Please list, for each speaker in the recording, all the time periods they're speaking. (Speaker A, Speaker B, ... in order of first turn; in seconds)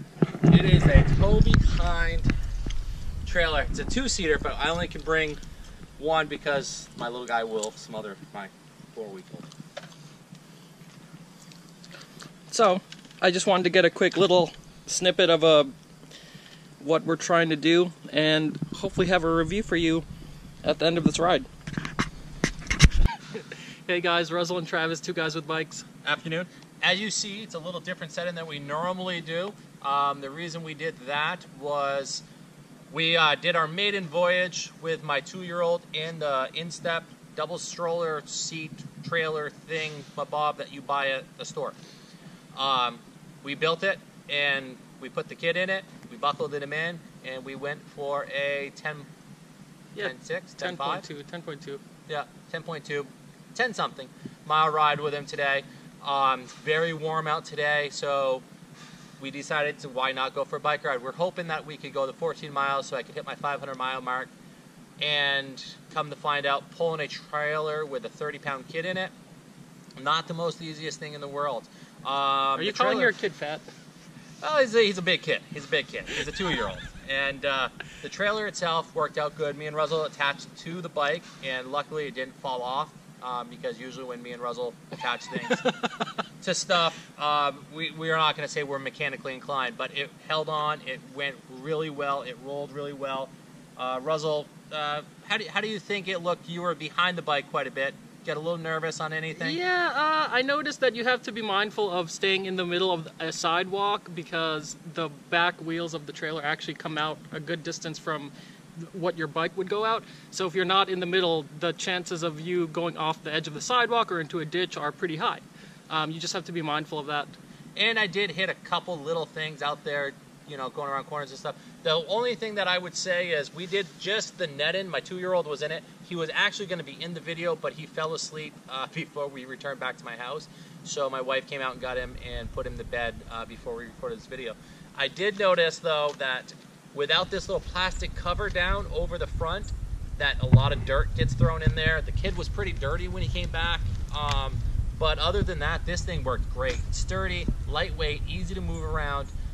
Speaker A: 0.5-2.3, 3.2-5.4, 6.0-9.5, 26.0-32.2, 32.9-41.8, 42.5-49.1, 50.0-51.0, 52.1-58.4, 59.2-64.3, 65.0-69.1, 70.0-73.1, 74.4-85.6, 86.4-99.6, 117.8-149.3
Speaker B: 12.5-15.7, 16.8-20.1, 20.6-21.5, 23.9-25.8, 49.9-51.8, 72.5-73.7, 85.4-85.7, 99.3-117.3